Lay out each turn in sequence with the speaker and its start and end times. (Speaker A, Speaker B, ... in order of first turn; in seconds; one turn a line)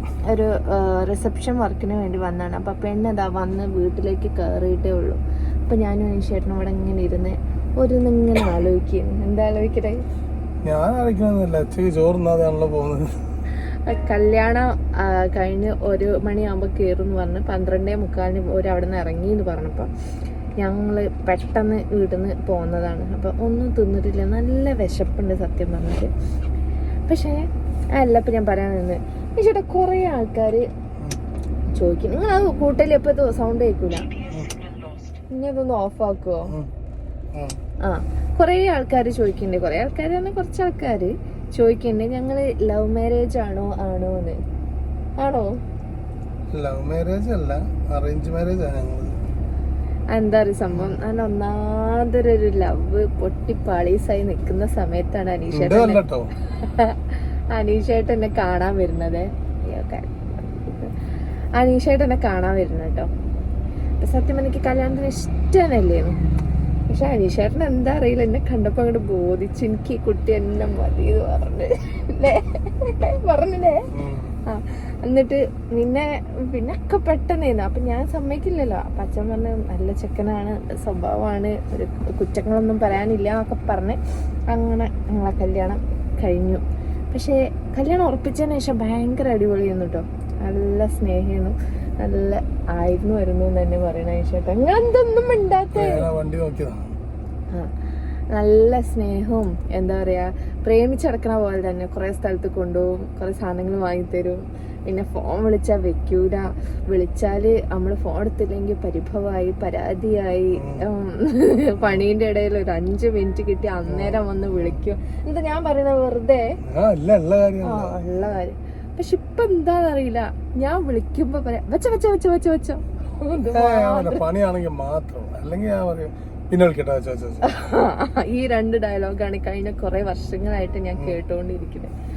Speaker A: 0.3-10.0
Speaker B: 10.6-13.2
Speaker A: 13.9-19.9
Speaker A: 20.6-26.1
Speaker A: 27.1-30.7
Speaker A: 31.8-34.2
Speaker B: 34.3-34.6
Speaker A: 35.3-36.6
Speaker A: 37.8-44.4
Speaker A: 45.2-45.6
Speaker B: 46.5-49.2
Speaker A: 50.1-60.9
Speaker B: 50.7-51.0
Speaker B: 55.5-56.3
Speaker A: 61.6-63.1
Speaker A: 64.0-66.2
Speaker A: 66.9-73.9
Speaker B: 73.9-74.3
Speaker A: 74.5-84.0
Speaker A: 84.5-96.1
Speaker B: 95.8-96.9
Speaker A: 98.3-116.6
Speaker B: 110.5-110.9
Speaker B: 113.9-114.8
Speaker B: 116.6-118.1
Speaker A: 117.6-124.2
Speaker B: 123.5-127.5
Speaker A: 127.4-131.9
Speaker B: 130.9-131.2